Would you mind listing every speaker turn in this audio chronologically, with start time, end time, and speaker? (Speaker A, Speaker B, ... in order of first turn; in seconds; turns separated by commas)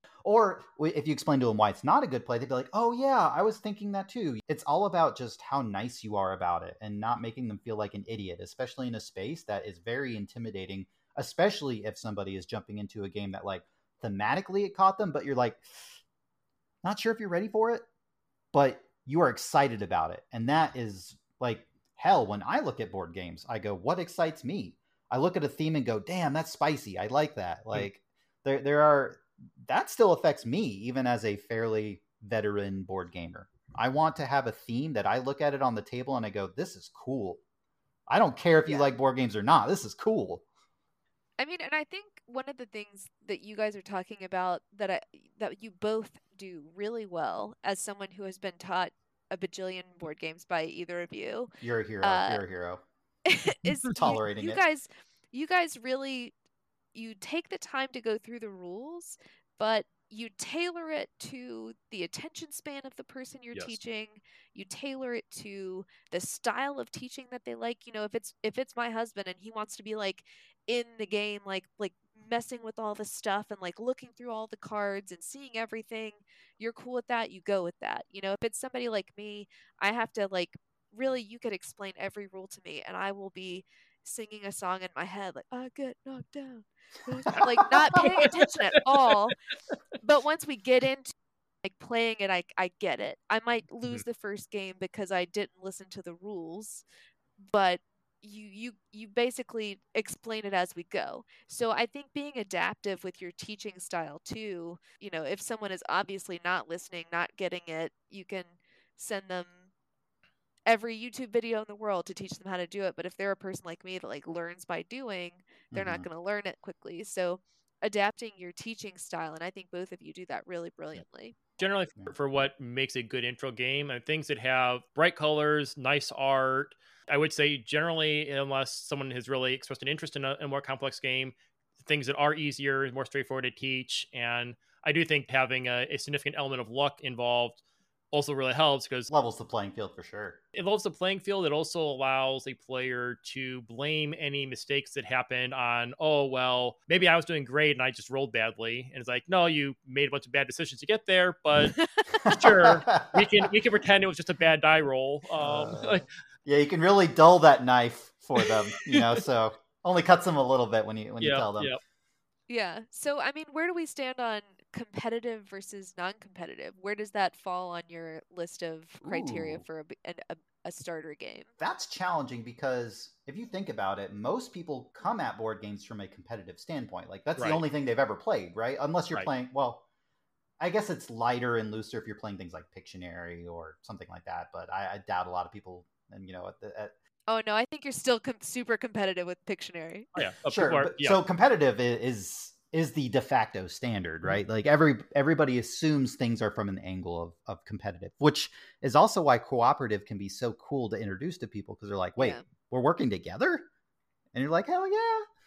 Speaker A: 0.2-16.0, Speaker A: 16.8-17.9, Speaker A: 18.5-37.4, Speaker A: 38.1-40.4, Speaker B: 41.4-51.5, Speaker A: 51.6-52.8, Speaker B: 52.0-52.4, Speaker B: 53.3-56.3, Speaker A: 53.9-54.6, Speaker B: 56.9-89.4, Speaker A: 87.3-88.1, Speaker C: 88.0-89.2, Speaker B: 90.0-96.8, Speaker B: 97.4-109.7, Speaker B: 110.7-121.4, Speaker A: 115.7-116.1, Speaker C: 121.6-139.1, Speaker A: 139.1-140.4, Speaker C: 140.6-156.1, Speaker A: 152.2-153.5, Speaker A: 155.4-161.7, Speaker C: 158.9-159.2, Speaker C: 161.2-161.8, Speaker B: 162.5-171.5, Speaker A: 169.0-169.7, Speaker A: 171.6-179.8, Speaker C: 177.4-177.6, Speaker A: 180.6-186.9, Speaker B: 187.3-190.1, Speaker C: 190.2-191.2, Speaker A: 190.5-203.7, Speaker B: 202.2-202.4, Speaker A: 204.3-205.2